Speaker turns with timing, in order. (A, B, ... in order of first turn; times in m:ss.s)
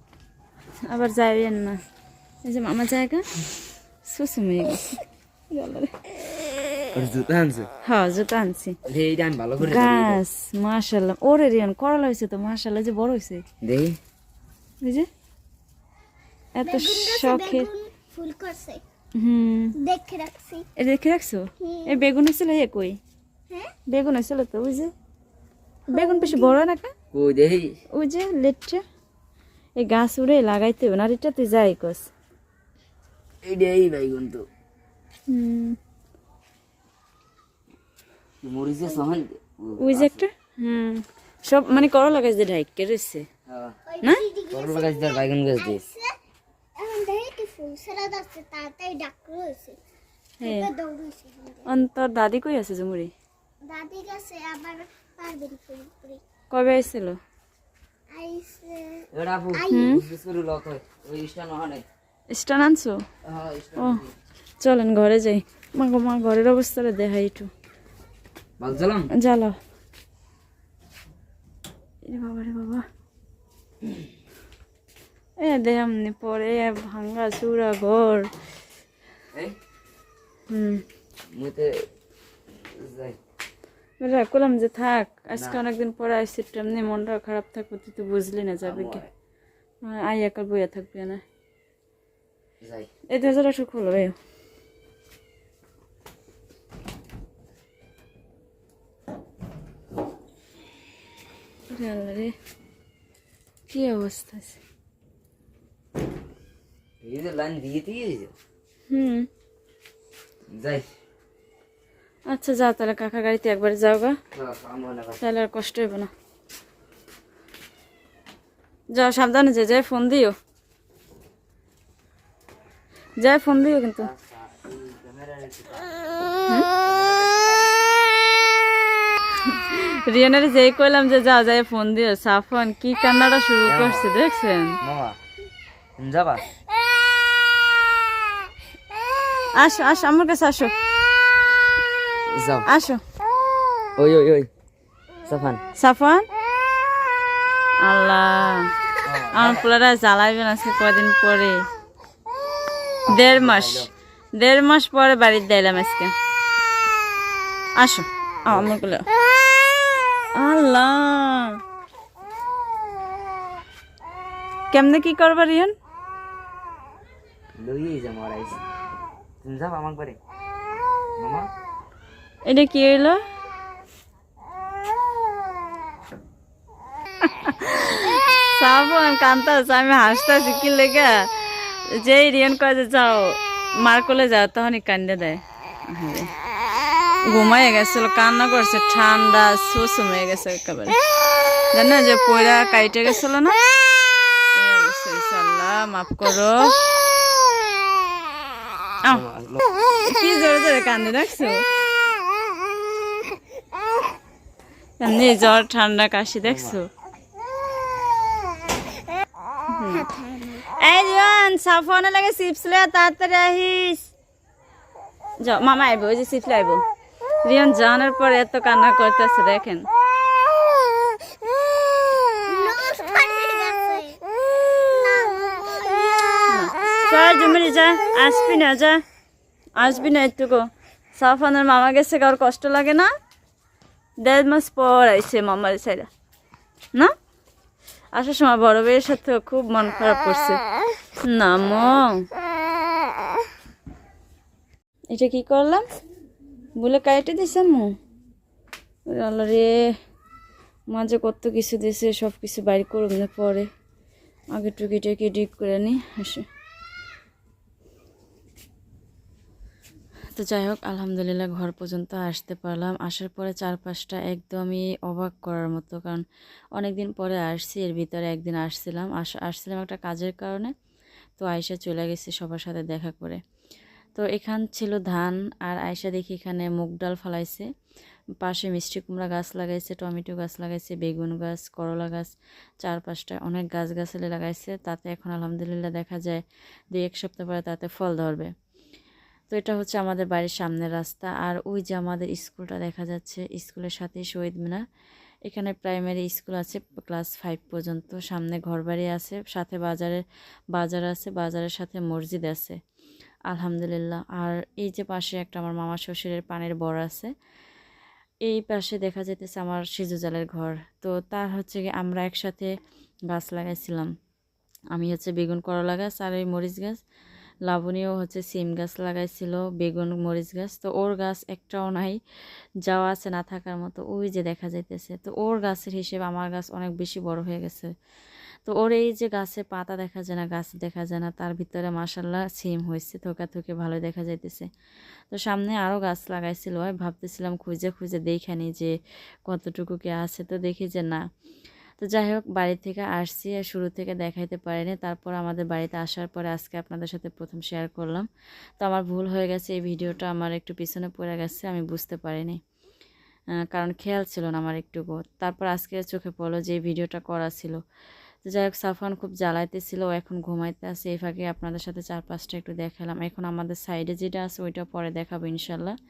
0:00.8-0:01.8 A
0:02.4-0:03.2 A
0:04.0-0:05.9 A
0:06.9-0:07.7 B
0:07.8-0:08.8 A
0:08.8-0:10.2 B
0:09.6-0:13.4 A
0:13.6-0:14.0 B
0:14.8-0:15.1 A
0:16.5-0:17.7 A
0:16.6-0:18.8 C
0:19.1-0:19.8 A
0:19.7-0:20.7 C
0:20.8-0:23.0 A
0:21.6-0:22.0 C
0:23.9-0:24.9 A
0:25.9-0:26.6 C
0:25.9-0:26.9 A
0:27.1-0:27.8 B
0:27.9-0:28.8 A
0:29.8-0:32.1 A
0:33.4-0:34.5 B
0:35.3-0:35.8 A
0:38.4-0:40.2 B
0:39.8-0:43.3 A
0:43.5-0:43.8 B
0:43.9-0:46.2 C
0:44.5-0:45.9 B
0:46.8-0:49.8 C
0:50.4-0:50.7 A
0:50.4-0:51.7 C
0:51.6-0:53.1 A
0:53.6-0:56.2 C
0:56.5-0:57.2 A
0:58.1-1:00.0 C
0:59.1-1:01.8 B
0:59.7-1:00.0 A
1:02.3-1:03.0 A
1:03.2-1:04.1 B
1:03.8-1:04.0 A
1:04.6-1:07.5 A
1:08.6-1:09.1 B
1:09.1-1:09.6 A
1:12.0-1:12.8 A
1:15.4-1:18.3 A
1:20.5-1:20.8 A
1:21.3-1:21.9 B
1:22.7-1:23.2 B
1:24.0-1:29.0 A
1:25.3-1:25.6 B
1:28.6-1:29.1 B
1:29.8-1:31.2 A
1:32.6-1:32.9 B
1:33.1-1:34.2 A
1:41.7-1:42.3 A
1:43.7-1:44.6 A
1:47.0-1:48.3 B
1:48.9-1:49.3 A
1:50.5-1:50.8 B
1:52.3-1:54.2 A
1:54.3-1:55.2 B
1:55.2-1:56.1 A
1:58.9-2:00.3 A
2:03.2-2:04.1 A
2:04.0-2:06.0 B
2:06.7-2:07.7 B
2:09.4-2:14.8 A
2:13.6-2:14.1 B
2:14.8-2:15.2 B
2:16.0-2:16.4 B
2:19.5-2:20.7 A
2:22.3-2:22.6 B
2:22.6-2:23.0 A
2:24.0-2:24.5 B
2:25.2-2:25.6 B
2:25.7-2:26.3 A
2:27.8-2:28.7 A
2:29.0-2:29.6 B
2:29.3-2:31.6 A
2:33.1-2:36.1 A
2:33.1-2:33.9 B
2:37.8-2:39.0 A
2:38.5-2:38.7 B
2:40.3-2:41.6 A
2:44.7-2:45.7 A
2:47.6-2:48.6 B
2:49.4-2:50.2 B
2:51.2-2:51.5 B
2:52.4-2:53.2 A
2:57.2-3:01.1 A
3:01.9-3:06.3 A
3:07.3-3:11.0 A
3:11.7-3:13.6 A
3:14.5-3:16.8 A
3:19.1-3:19.6 B
3:20.0-3:21.6 A
3:25.0-3:26.9 A
3:26.4-3:26.8 B
3:29.7-3:30.1 A
3:30.6-3:34.1 A
3:35.4-3:36.8 A
3:37.4-3:39.8 A
3:42.5-3:46.1 C
3:46.5-3:49.0 A
3:49.8-3:53.1 A
3:54.2-3:56.1 A
3:58.1-4:00.6 A
4:01.2-4:02.2 A
4:05.1-4:05.8 A
4:06.8-4:07.9 A
4:09.1-4:09.8 A
4:10.9-4:13.7 A
4:14.5-4:16.5 A
4:20.4-4:26.2 A
4:26.8-4:30.7 A
4:31.4-4:33.4 A
4:34.2-4:37.7 A
4:38.4-4:48.5 A
4:49.5-4:54.8 A
4:55.4-5:00.2 A
5:00.7-5:02.8 A
5:03.5-5:07.3 A
5:08.4-5:12.7 A
5:13.3-5:14.1 A
5:14.9-5:17.0 A
5:17.6-5:22.2 A
5:22.8-5:27.9 A
5:28.6-5:34.7 A
5:35.3-5:38.9 A
5:39.5-5:41.2 A
5:42.0-5:48.3 A
5:48.8-5:52.6 A
5:53.7-5:57.8 A
5:58.4-6:06.0 A